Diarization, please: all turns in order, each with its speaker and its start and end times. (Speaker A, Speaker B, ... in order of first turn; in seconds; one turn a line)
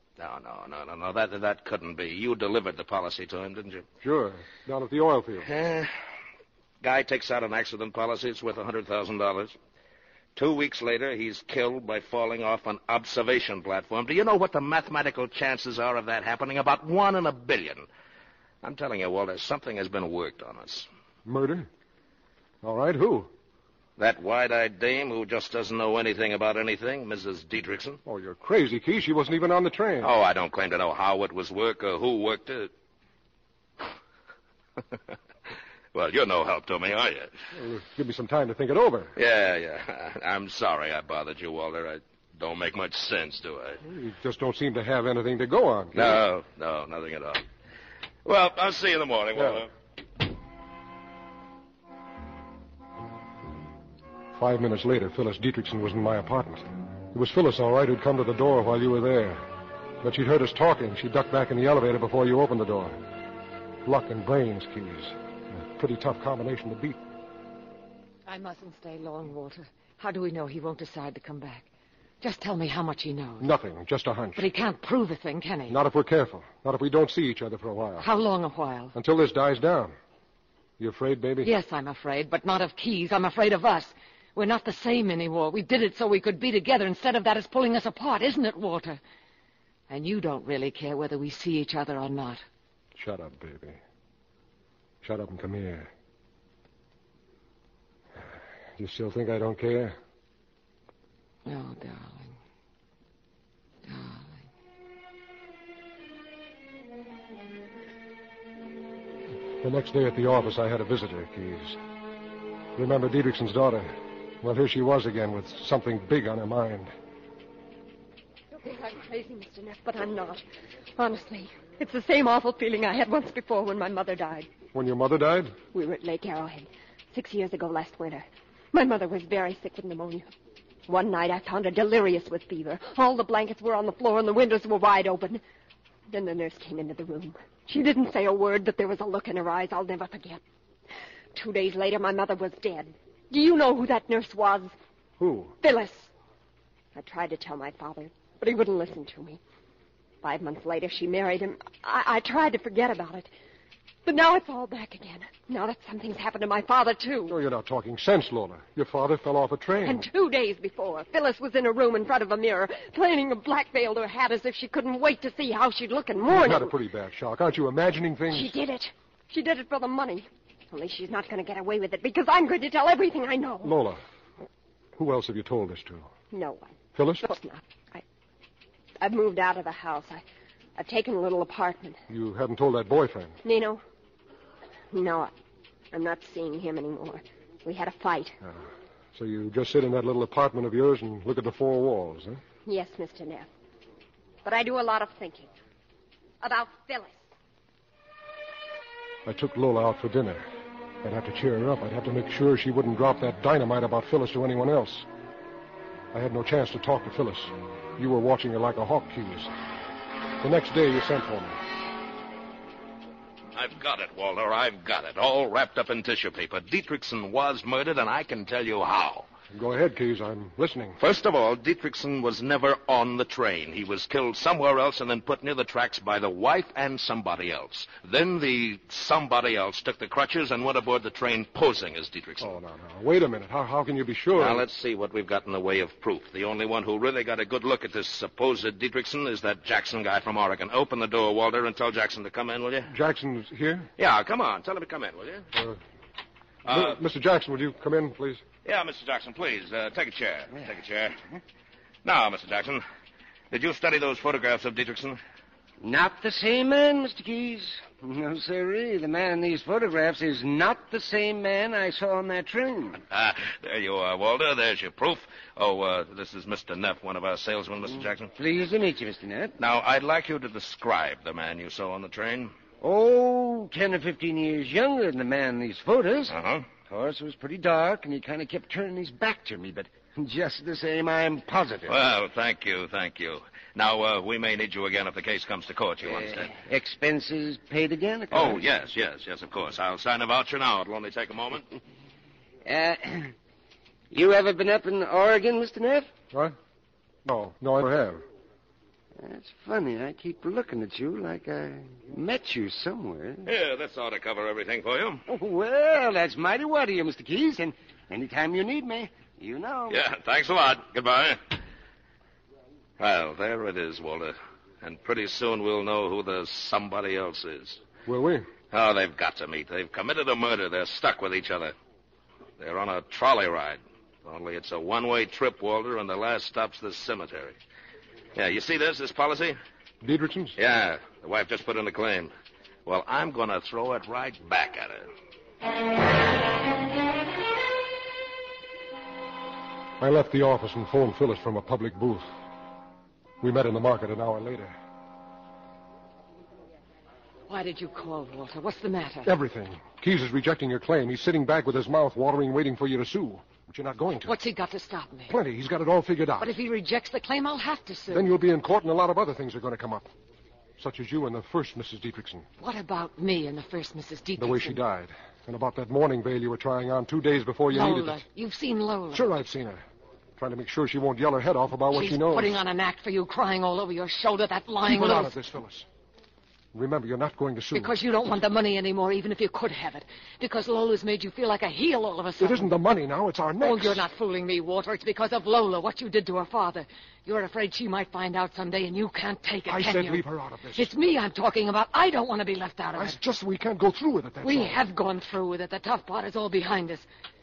Speaker A: 0.2-3.9
Speaker B: 4.0-5.5
Speaker A: 5.5-5.9
Speaker A: 6.8-9.6
Speaker A: 10.3-17.9
Speaker A: 18.6-20.9
Speaker B: 21.3-21.7
Speaker B: 22.6-23.3
Speaker A: 24.0-28.0
Speaker B: 28.1-30.1
Speaker A: 30.0-32.7
Speaker A: 35.9-37.3
Speaker B: 37.5-39.1
Speaker A: 39.2-43.8
Speaker B: 43.8-46.2
Speaker A: 45.9-47.4
Speaker A: 48.2-49.7
Speaker B: 54.3-59.5
Speaker B: 60.0-63.0
Speaker B: 63.9-67.0
Speaker C: 68.3-71.7
Speaker C: 72.2-73.5
Speaker B: 73.4-74.5
Speaker C: 74.4-75.8
Speaker B: 75.7-78.1
Speaker C: 78.0-79.0
Speaker B: 79.0-80.0
Speaker B: 80.8-81.5
Speaker C: 81.4-89.0
Speaker C: 89.9-92.4
Speaker B: 93.0-93.8
Speaker B: 95.0-95.9
Speaker B: 98.8-100.0
Speaker C: 101.5-102.4
Speaker C: 103.8-104.4
Speaker B: 109.6-111.8
Speaker B: 112.8-116.9
Speaker D: 118.6-120.4
Speaker D: 121.0-124.5
Speaker B: 124.7-125.6
Speaker D: 125.7-130.3
Speaker D: 130.9-135.4
Speaker D: 136.1-140.4
Speaker D: 141.3-144.7
Speaker B: 145.2-145.6
Speaker D: 145.6-146.1
Speaker D: 146.9-149.4
Speaker D: 150.2-153.3
Speaker D: 154.1-157.4
Speaker B: 157.3-160.1
Speaker D: 159.8-166.7
Speaker B: 166.3-168.6
Speaker D: 168.3-173.7
Speaker B: 173.6-174.0
Speaker B: 175.0-176.1
Speaker D: 176.3-178.0
Speaker B: 176.9-177.3
Speaker D: 179.0-180.2
Speaker D: 180.8-182.0
Speaker B: 182.1-183.4
Speaker D: 183.4-183.8
Speaker D: 184.9-185.3
Speaker D: 185.9-188.4
Speaker B: 188.4-192.4
Speaker D: 192.7-193.5
Speaker D: 194.4-195.5
Speaker D: 196.4-197.2
Speaker B: 199.2-200.5
Speaker B: 201.0-205.1
Speaker B: 206.1-209.5
Speaker B: 210.4-211.6
Speaker A: 213.5-219.3
Speaker B: 219.5-221.0
Speaker A: 221.0-232.6
Speaker B: 232.4-234.6
Speaker A: 234.3-242.9
Speaker B: 242.9-243.9
Speaker A: 244.0-245.5
Speaker A: 246.7-247.0
Speaker B: 246.7-248.4
Speaker A: 248.7-251.2
Speaker A: 252.0-252.8
Speaker A: 253.5-255.2
Speaker E: 255.8-263.0
Speaker A: 263.1-268.3
Speaker E: 268.3-269.6
Speaker A: 269.6-272.5
Speaker E: 272.8-281.9
Speaker A: 276.3-276.7
Speaker A: 281.9-286.6
Speaker E: 286.1-288.6
Speaker A: 288.3-291.7
Speaker E: 292.7-293.3
Speaker E: 294.1-296.1
Speaker B: 297.2-298.2
Speaker E: 299.2-303.5
Speaker A: 303.5-305.2
Speaker E: 305.3-310.0
Speaker A: 309.9-311.6
Speaker A: 313.0-317.8
Speaker B: 318.1-318.5
Speaker A: 318.7-321.8
Speaker A: 322.6-327.6
Speaker A: 328.4-329.6
Speaker B: 330.0-330.6
Speaker A: 330.6-332.3
Speaker A: 332.9-335.1
Speaker B: 340.0-342.3
Speaker B: 343.4-344.7
Speaker C: 347.5-349.3
Speaker B: 349.2-354.4
Speaker C: 354.3-355.3
Speaker B: 355.3-356.5
Speaker C: 356.4-358.3
Speaker B: 358.1-360.1
Speaker B: 360.8-362.5
Speaker C: 362.6-364.8
Speaker B: 364.4-368.2
Speaker C: 367.7-369.3
Speaker B: 369.1-369.8
Speaker B: 370.4-372.6
Speaker C: 371.9-375.3
Speaker B: 374.9-375.9
Speaker B: 376.7-377.9
Speaker C: 377.7-382.7
Speaker B: 382.4-384.1
Speaker C: 383.6-390.2
Speaker B: 389.7-390.9
Speaker C: 390.8-393.2
Speaker B: 393.0-394.8
Speaker C: 394.4-397.1